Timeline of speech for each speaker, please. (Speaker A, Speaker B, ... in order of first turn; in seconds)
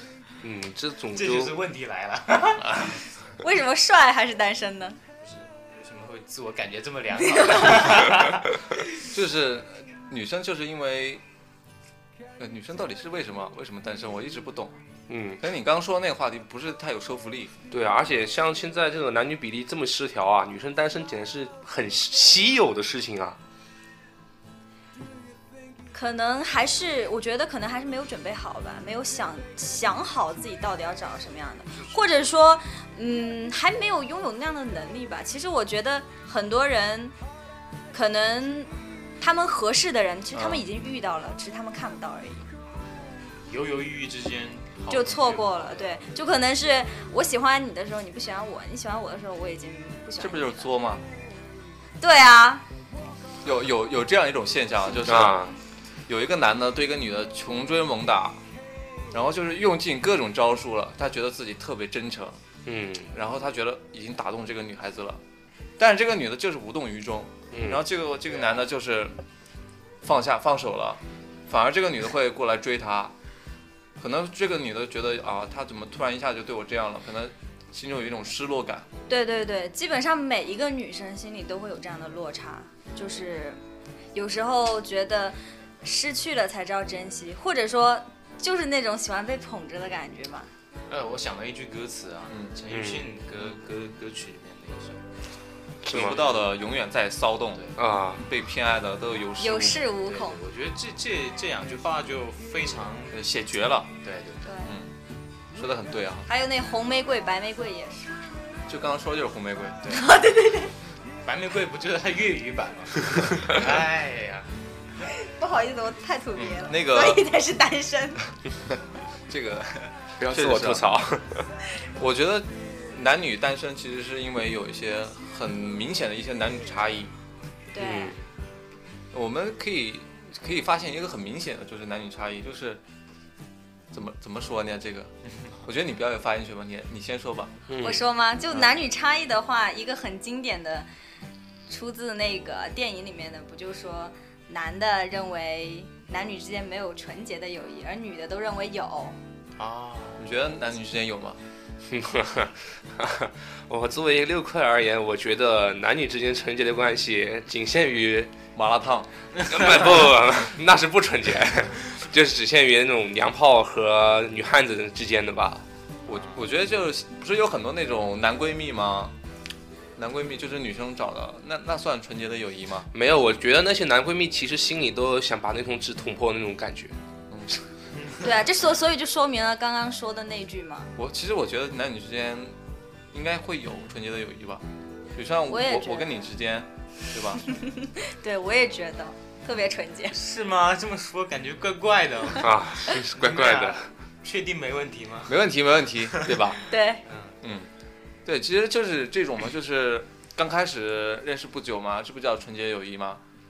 Speaker A: 0.4-1.6, 15.1-15.4, 17.7-23.4, 55.0-55.5, 62.7-63.1, 67.5-67.8, 92.7-93.1, 95.8-96.2, 97.8-98.3, 120.2-121.5, 127.8-128.2, 137.7-138.0, 151.9-158.3, 159.4-165.7, 172.9-177.0, 192.4-193.9
Speaker B: 1.1-3.0, 5.2-8.5, 43.5-46.0, 90.9-95.0, 95.9-96.4, 100.1-103.2, 104.0-104.4, 111.2-114.5, 149.6-150.3, 178.0-178.2, 190.1-195.4, 196.1-196.5, 197.1-197.4
Speaker C: 3.4-5.0, 25.9-37.1, 37.9-42.5, 44.9-50.7, 52.0-52.6, 79.1-83.6, 84.1-90.5, 99.4-100.4, 104.4-104.7, 106.3-108.2, 109.9-110.7, 115.1-118.2, 127.7-128.2, 137.8-140.9, 141.7-149.2, 178.2-180.9, 185.5-186.1, 187.4-190.2, 196.7-197.0
Speaker D: 9.1-11.2, 12.4-14.8, 15.4-17.5, 40.3-40.7, 50.2-51.0, 53.4-55.4, 56.1-58.4, 59.1-62.4, 63.1-65.2, 65.8-69.2, 70.0-73.1, 74.0-78.9, 92.3-92.5, 95.9-99.8, 103.1-103.9, 104.6-104.9, 105.5-106.3, 108.7-110.0, 116.3-117.3, 119.3-120.9, 122.0-127.1, 129.1-132.8, 133.9-135.1, 135.6-137.6, 150.2-151.4, 158.6-159.1, 166.1-169.2, 170.0-172.9, 177.3-177.6, 181.0-182.6, 183.1-184.6, 185.2-187.4, 195.3-196.6, 197.4-197.7, 198.3-203.2